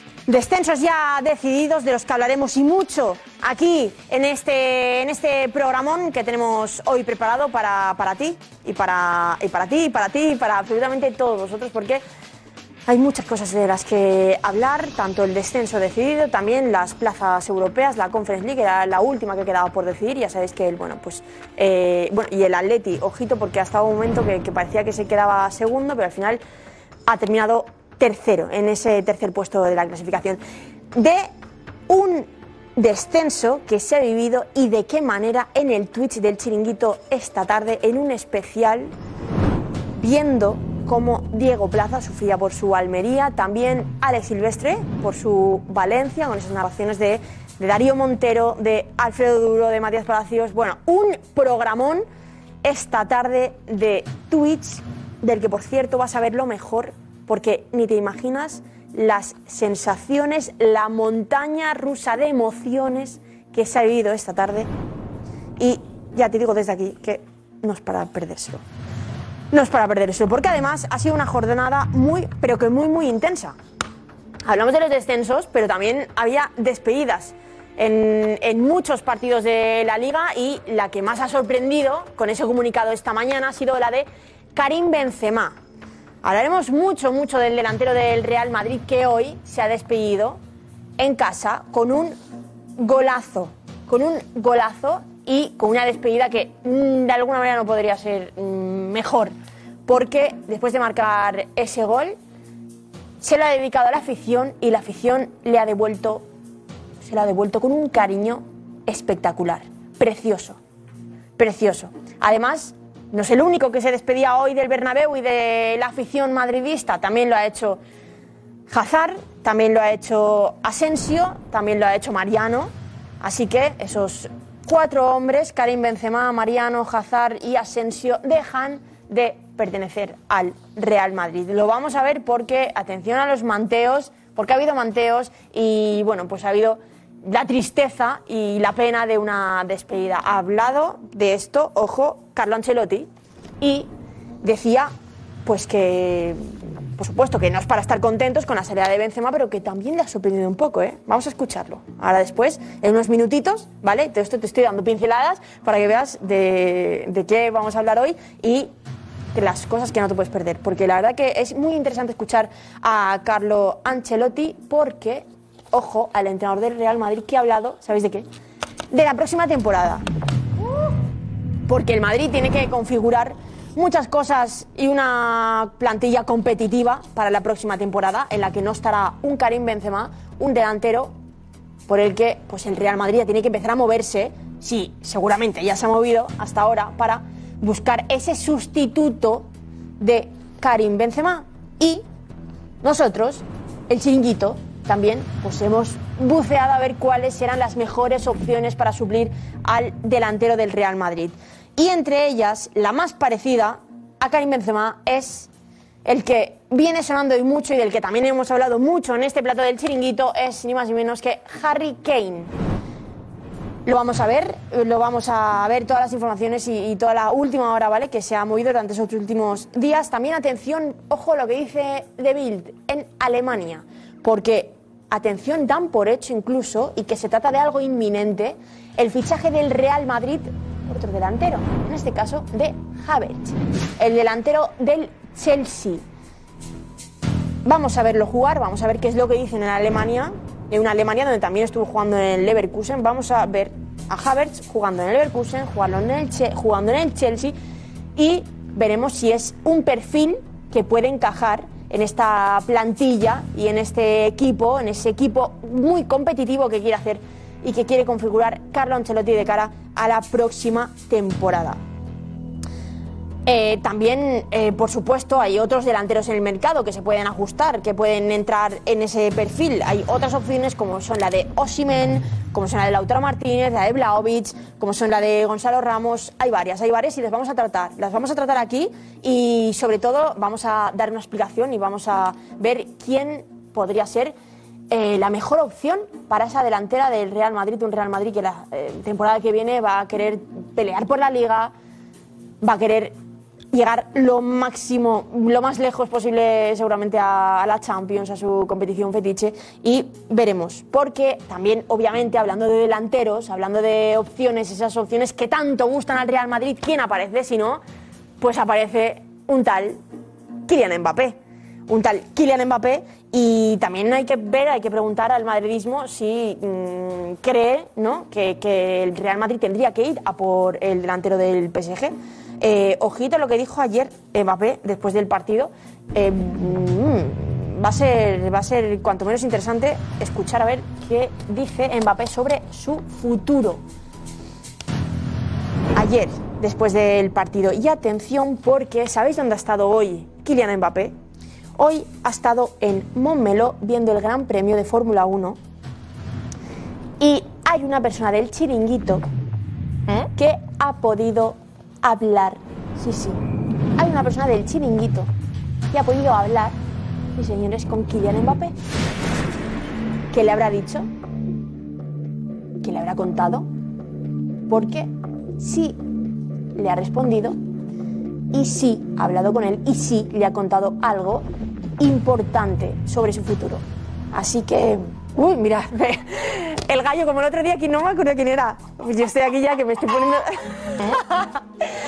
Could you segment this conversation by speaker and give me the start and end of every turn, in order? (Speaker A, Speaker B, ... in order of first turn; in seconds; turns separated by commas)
Speaker A: 0.3-12.0, Speaker A: 12.9-26.4, Speaker A: 27.1-30.4, Speaker A: 30.9-31.3, Speaker A: 31.9-38.9, Speaker A: 40.0-52.0, Speaker A: 52.6-64.7, Speaker A: 65.6-68.6, Speaker A: 69.5-73.5, Speaker A: 74.4-85.6, Speaker A: 86.2-90.4, Speaker A: 91.0-92.2, Speaker A: 92.8-99.3, Speaker A: 99.9-102.2, Speaker A: 103.2-106.2, Speaker A: 107.0-110.6, Speaker A: 111.4-117.8, Speaker A: 118.7-143.1, Speaker A: 143.6-143.9, Speaker A: 144.4-144.9, Speaker A: 145.4-146.4, Speaker A: 147.0-158.7, Speaker A: 159.3-168.2, Speaker A: 168.9-170.0, Speaker A: 171.7-181.1, Speaker A: 181.9-192.0, Speaker A: 192.8-205.5, Speaker A: 206.0-212.5, Speaker A: 213.8-236.0, Speaker A: 237.6-247.6, Speaker A: 248.2-261.8, Speaker A: 263.4-284.3, Speaker A: 284.9-291.7, Speaker A: 292.6-293.1, Speaker A: 293.7-307.8, Speaker A: 308.4-310.0, Speaker A: 310.7-333.8, Speaker A: 335.9-341.1, Speaker A: 341.8-345.6, Speaker A: 347.2-349.2, Speaker A: 350.1-353.4, Speaker A: 354.0-355.3, Speaker A: 355.9-356.8, Speaker A: 357.4-358.8, Speaker A: 360.3-361.1, Speaker A: 362.8-363.7, Speaker A: 364.7-366.0, Speaker A: 366.8-367.6, Speaker A: 368.5-371.5, Speaker A: 372.0-381.6